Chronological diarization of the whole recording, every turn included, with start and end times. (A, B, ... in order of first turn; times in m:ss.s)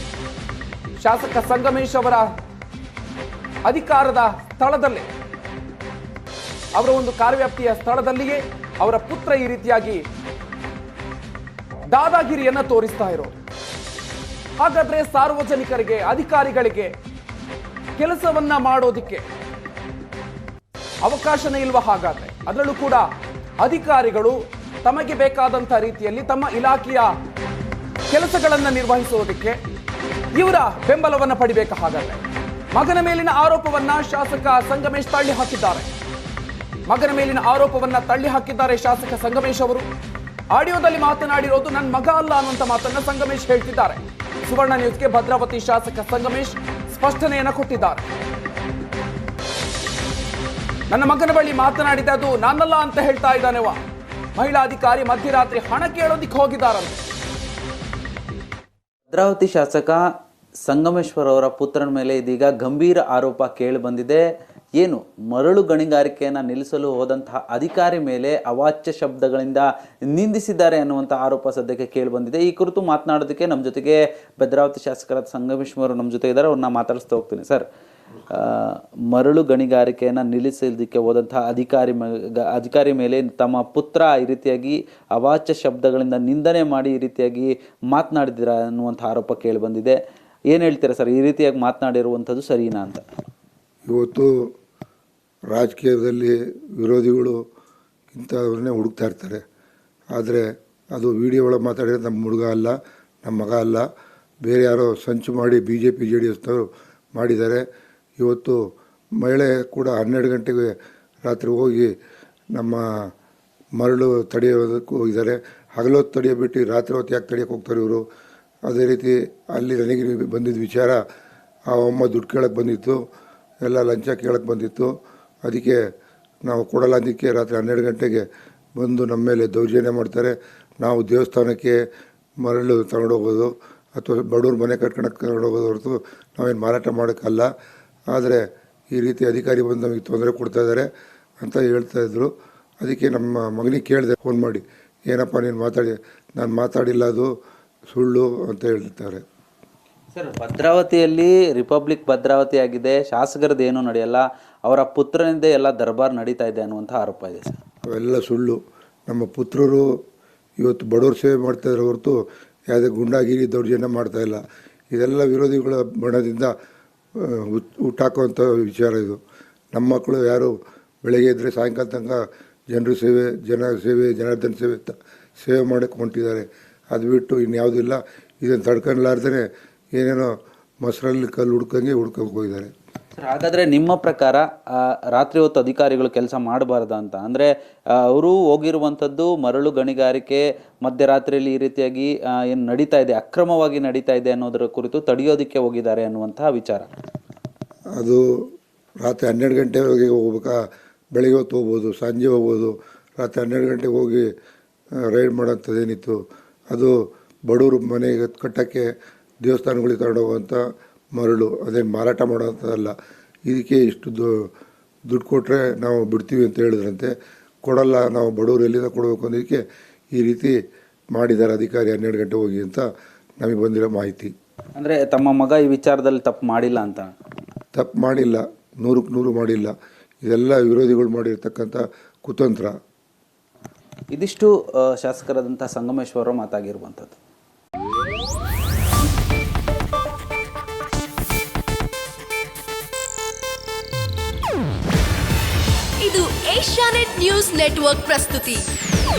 0:01.0-0:02.3 A
0:03.7-0:05.1 A
0:06.8-0:10.0 A
0:11.9-0:13.3 A
0:14.6-0:16.9 A
0:18.0-0:19.2 A
0:21.0-0:23.1 A
0:23.6-0:27.1 A
0:28.1-0:29.6 A
0:30.4-0:35.9 A
0:36.9-0:39.9 A
0:40.5-0:48.0 A
0:50.9-0:53.8 A
0:54.4-0:57.0 A
0:59.1-1:00.0 B
1:00.7-1:04.2 B
1:04.8-1:17.7 B
1:18.3-1:30.0 B
1:30.5-1:33.0 B
1:33.9-1:34.4 C
1:35.5-1:37.4 C
1:38.1-1:39.4 C
1:40.2-1:43.8 C
1:44.4-1:47.6 C
1:48.2-1:48.6 C
1:49.2-1:50.7 C
1:51.3-1:51.9 C
1:52.6-1:53.1 C
1:53.8-1:58.0 C
1:58.7-2:01.0 C
2:01.7-2:03.0 C
2:03.6-2:04.9 C
2:05.4-2:05.8 C
2:06.5-2:08.2 C
2:08.8-2:11.8 C
2:12.4-2:17.5 C
2:18.1-2:20.9 C
2:21.4-2:22.3 C
2:22.8-2:27.3 C
2:27.9-2:29.2 C
2:30.1-2:37.6 B
2:37.9-2:39.8 C
2:40.6-2:42.2 C
2:42.7-2:44.4 C
2:44.9-2:46.5 C
2:47.2-2:49.2 C
2:49.7-2:50.5 C
2:51.0-2:59.4 C
3:00.0-3:02.7 C
3:03.2-3:16.9 B
3:18.0-3:18.2 C
3:19.0-3:20.6 C
3:21.1-3:24.3 C
3:25.1-3:26.2 C
3:27.5-3:28.8 C
3:29.4-3:30.6 C
3:31.2-3:32.9 C
3:33.5-3:34.5 C
3:35.1-3:37.1 C
3:37.6-3:39.6 C
3:40.1-3:40.5 C
3:41.1-3:42.8 C
3:43.4-3:44.3 C
3:44.8-3:47.1 B
3:47.7-3:49.7 C
3:50.2-3:52.7 C
3:54.1-3:57.2 B
4:06.0-4:08.7 D